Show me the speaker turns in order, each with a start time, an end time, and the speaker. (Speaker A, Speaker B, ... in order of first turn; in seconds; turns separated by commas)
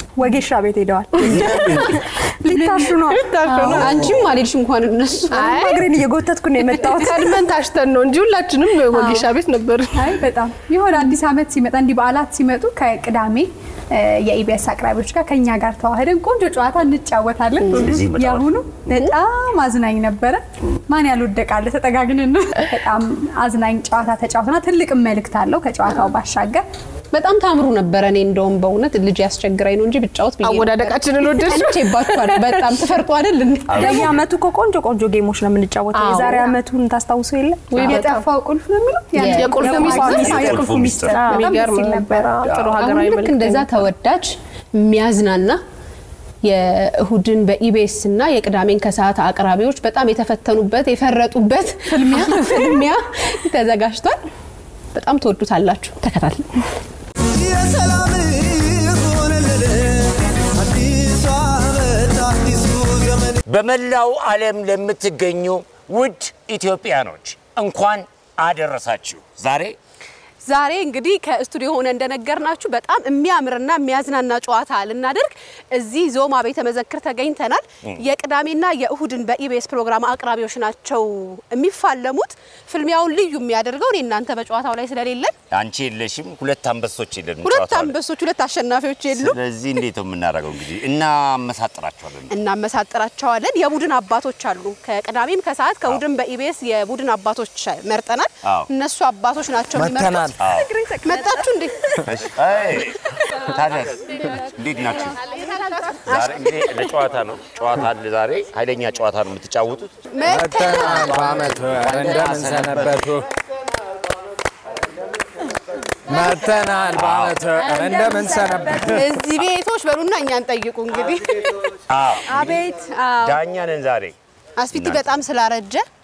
Speaker A: 0.2-3.7, Speaker B: 0.3-1.2, Speaker C: 1.2-2.0, Speaker D: 1.2-1.6, Speaker B: 2.4-3.8, Speaker D: 2.5-4.1, Speaker E: 3.7-5.7, Speaker C: 3.8-4.2, Speaker B: 5.3-7.4, Speaker D: 5.4-5.8, Speaker D: 6.8-10.1, Speaker B: 8.9-9.2, Speaker A: 9.9-26.6, Speaker D: 17.6-17.9, Speaker C: 17.8-18.5, Speaker E: 18.9-19.2, Speaker E: 27.1-34.1, Speaker D: 30.4-32.6, Speaker B: 33.7-38.1, Speaker C: 33.7-34.1, Speaker D: 36.0-36.4, Speaker E: 36.0-36.4, Speaker D: 37.7-38.2, Speaker E: 37.8-38.2, Speaker A: 37.8-42.3, Speaker E: 39.1-40.5, Speaker D: 39.2-43.7, Speaker B: 39.3-41.6, Speaker C: 40.2-41.2, Speaker E: 42.5-45.6, Speaker E: 46.4-54.2, Speaker A: 51.9-52.8, Speaker E: 54.9-56.6, Speaker C: 63.4-69.8, Speaker E: 70.4-85.3, Speaker C: 85.5-87.9, Speaker E: 87.4-89.4, Speaker C: 89.1-92.3, Speaker E: 92.3-100.3, Speaker C: 98.4-98.7, Speaker F: 99.7-100.4, Speaker C: 100.4-100.7, Speaker E: 101.0-101.8, Speaker C: 102.0-105.2, Speaker E: 105.3-106.7, Speaker C: 106.0-109.9, Speaker E: 110.1-111.4, Speaker F: 110.2-113.2, Speaker C: 111.7-113.1, Speaker F: 116.1-119.1, Speaker C: 116.9-117.4, Speaker E: 118.8-123.4, Speaker C: 121.9-122.6, Speaker C: 123.2-124.2, Speaker E: 124.6-125.8, Speaker C: 124.7-125.2